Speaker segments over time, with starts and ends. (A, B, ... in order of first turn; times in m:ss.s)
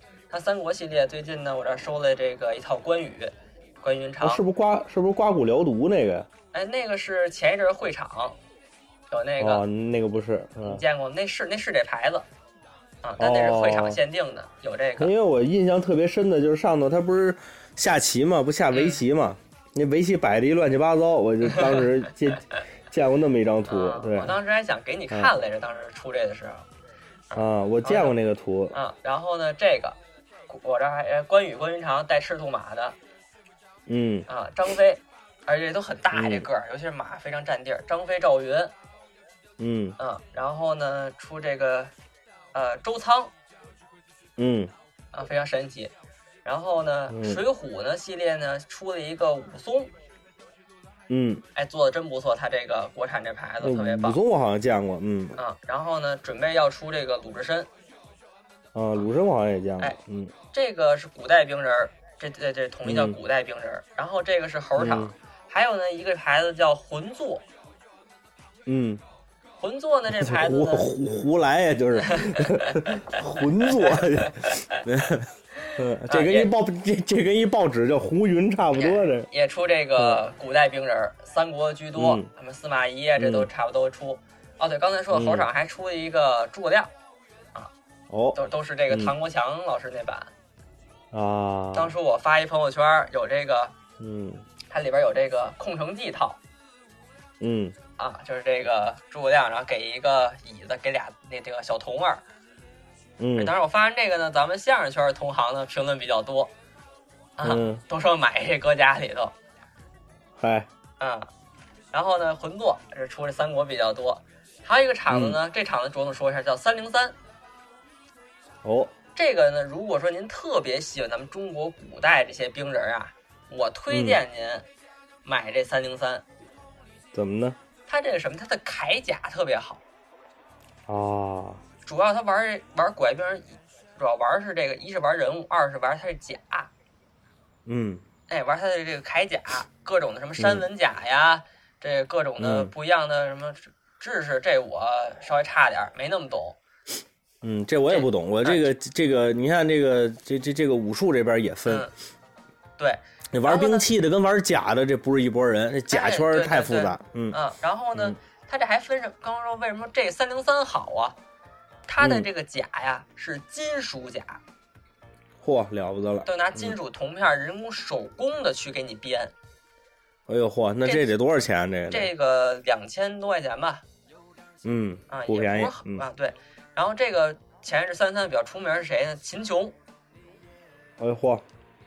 0:00.3-0:04.4 A
0:04.2-0:06.3 B
0:06.5-0:08.4 A
0:09.1-0:09.6 A
0:09.4-0:10.8 B
0:10.6-0:12.3 A
0:13.0-0:15.1 A
0:13.2-0:14.0 B
0:15.0-0:24.4 B
0:18.7-0:19.0 A
0:21.4-0:21.9 A
0:23.7-0:26.7 A
0:27.3-0:28.2 A
0:27.3-0:28.8 B
0:28.7-0:30.0 A
0:30.5-0:33.0 A
0:33.9-0:34.3 B
0:34.3-0:38.7 A
0:36.1-0:36.5 B
0:39.6-0:40.0 B
0:40.0-0:41.9 A
0:42.5-0:43.3 A
0:44.4-0:44.7 B
0:45.1-0:45.9 A
0:46.4-0:49.9 A
0:47.1-0:47.4 B
0:51.1-0:51.4 B
0:51.6-0:54.2 A
0:53.6-0:55.4 B
0:55.4-0:57.7 A
0:58.7-1:00.3 B
1:00.5-1:07.4 A
1:02.8-1:03.2 B
1:04.8-1:05.1 B
1:08.6-1:09.0 B
1:09.6-1:10.9 A
1:10.1-1:19.3 B
1:12.0-1:14.8 A
1:15.6-1:16.5 A
1:18.8-1:26.9 A
1:20.0-1:20.2 B
1:22.0-1:22.3 B
1:23.2-1:23.5 B
1:25.1-1:25.5 B
1:28.1-1:28.4 B
1:28.4-1:30.3 A
1:31.1-1:31.9 B
1:31.7-1:33.7 A
1:34.0-1:34.4 B
1:34.7-1:36.4 A
1:37.4-1:37.8 B
1:38.0-1:42.2 A
1:43.2-1:43.5 B
1:43.4-1:46.5 A
1:47.4-1:49.3 A
1:47.4-1:47.8 B
1:50.4-1:50.7 B
1:51.0-1:51.3 A
1:51.9-1:57.2 A
1:55.1-1:55.4 B
1:58.6-1:58.9 B
1:59.2-2:04.6 A
2:03.9-2:04.2 B
2:05.2-2:06.2 A
2:07.1-2:07.6 B
2:07.9-2:09.8 A
2:10.9-2:11.6 B
2:11.8-2:16.7 A
2:17.6-2:18.0 B
2:18.3-2:26.6 A
2:20.4-2:20.6 B
2:22.4-2:22.7 B
2:27.4-2:31.9 B
2:27.9-2:28.7 A
2:31.6-2:31.9 A
2:32.8-2:33.9 A
2:33.3-2:37.4 B
2:35.9-2:41.2 A
2:41.9-2:44.4 A
2:42.0-2:42.3 B
2:45.4-2:46.8 B
2:46.2-2:49.3 A
2:50.3-2:52.1 B
2:50.8-2:51.1 A
2:51.9-2:53.8 A
2:54.6-2:56.0 B
2:55.1-2:59.8 A
3:01.0-3:01.4 B